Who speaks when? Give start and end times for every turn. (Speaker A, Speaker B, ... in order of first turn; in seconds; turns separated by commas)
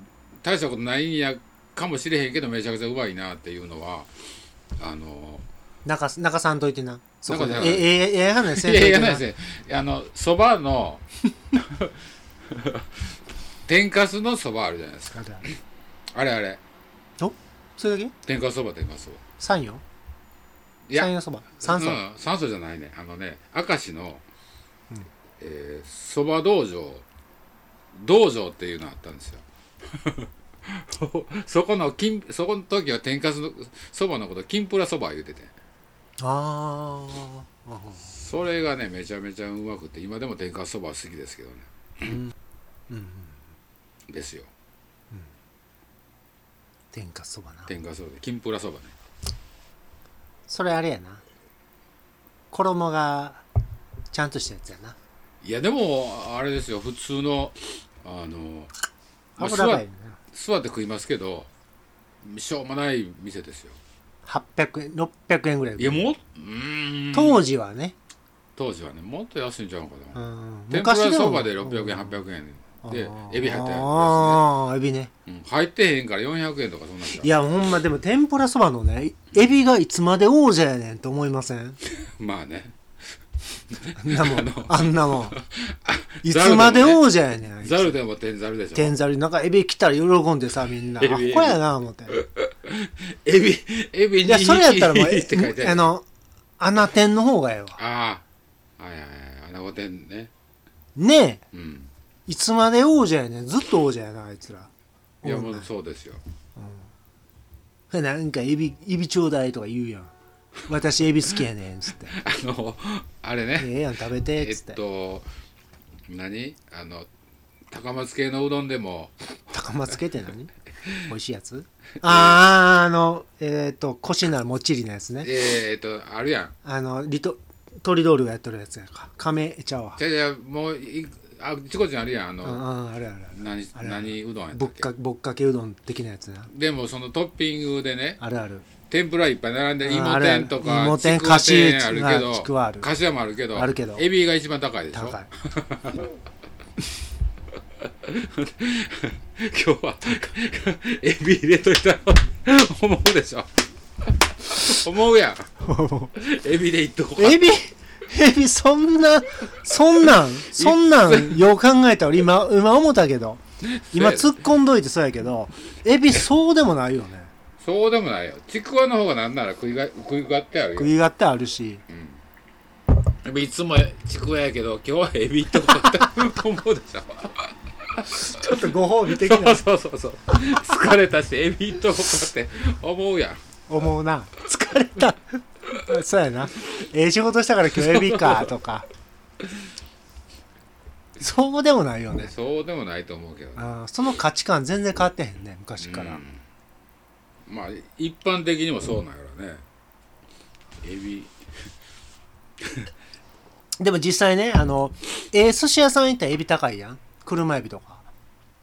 Speaker A: 0.4-4.1, Speaker A: 4.8-5.5, Speaker B: 5.8-9.2, Speaker A: 7.3-11.9, Speaker A: 12.5-13.1, Speaker A: 13.7-15.6, Speaker B: 15.1-15.5, Speaker A: 16.1-16.6, Speaker B: 17.2-18.1, Speaker A: 18.2-19.2, Speaker B: 19.4-19.8, Speaker A: 20.9-24.2, Speaker B: 20.9-22.0, Speaker A: 25.4-27.1, Speaker A: 27.9-35.5, Speaker B: 36.2-38.1, Speaker A: 38.0-41.7, Speaker B: 42.0-42.3, Speaker B: 42.9-43.4, Speaker A: 44.1-44.5, Speaker B: 46.9-47.7, Speaker A: 47.7-49.0, Speaker B: 50.5-51.2, Speaker B: 52.5-53.5, Speaker B: 54.1-55.0, Speaker A: 55.4-58.7, Speaker B: 59.4-60.2, Speaker A: 59.4-61.5, Speaker A: 62.2-63.8, Speaker B: 64.2-66.1, Speaker A: 65.8-67.4, Speaker B: 67.1-68.0, Speaker A: 68.6-74.5, Speaker B: 70.2-72.2, Speaker B: 72.8-75.1, Speaker A: 75.3-77.4, Speaker B: 77.1-81.8, Speaker A: 81.8-82.8, Speaker A: 83.7-88.9, Speaker B: 84.0-85.4, Speaker B: 86.2-88.0, Speaker B: 88.8-92.2, Speaker A: 91.0-95.9, Speaker B: 94.2-96.1, Speaker B: 96.6-97.8, Speaker A: 97.8-98.2, Speaker A: 98.8-100.3, Speaker B: 101.0-101.4, Speaker A: 101.5-101.9, Speaker B: 102.3-104.7, Speaker B: 105.2-105.7, Speaker A: 105.2-106.2, Speaker B: 106.6-106.9, Speaker B: 107.9-110.1, Speaker B: 110.7-112.2, Speaker A: 112.1-115.3, Speaker B: 113.6-114.8, Speaker A: 116.1-117.1, Speaker A: 117.7-119.1, Speaker B: 119.5-120.5, Speaker B: 121.1-125.3, Speaker A: 122.0-122.4, Speaker A: 125.2-126.5, Speaker B: 126.6-130.0, Speaker A: 130.0-132.7, Speaker B: 132.4-136.5, Speaker A: 133.3-134.9, Speaker A: 136.5-138.2, Speaker B: 138.2-138.7, Speaker A: 138.9-146.1, Speaker B: 139.8-142.9, Speaker B: 143.5-144.1, Speaker B: 144.9-145.3, Speaker A: 147.8-153.5, Speaker A: 154.0-155.5, Speaker B: 155.6-156.1, Speaker A: 156.2-157.5, Speaker B: 157.2-167.3, Speaker A: 160.2-161.5, Speaker A: 163.6-164.4, Speaker A: 167.6-170.9, Speaker B: 170.8-171.8, Speaker A: 171.9-172.2, Speaker A: 173.2-183.4, Speaker B: 178.1-179.6, Speaker B: 183.7-188.9, Speaker A: 187.7-188.5, Speaker B: 191.2-192.3, Speaker A: 192.1-193.8, Speaker B: 193.6-196.2, Speaker A: 195.8-196.4, Speaker A: 197.5-199.6, Speaker A: 200.8-201.3, Speaker A: 202.6-202.9, Speaker B: 203.8-208.1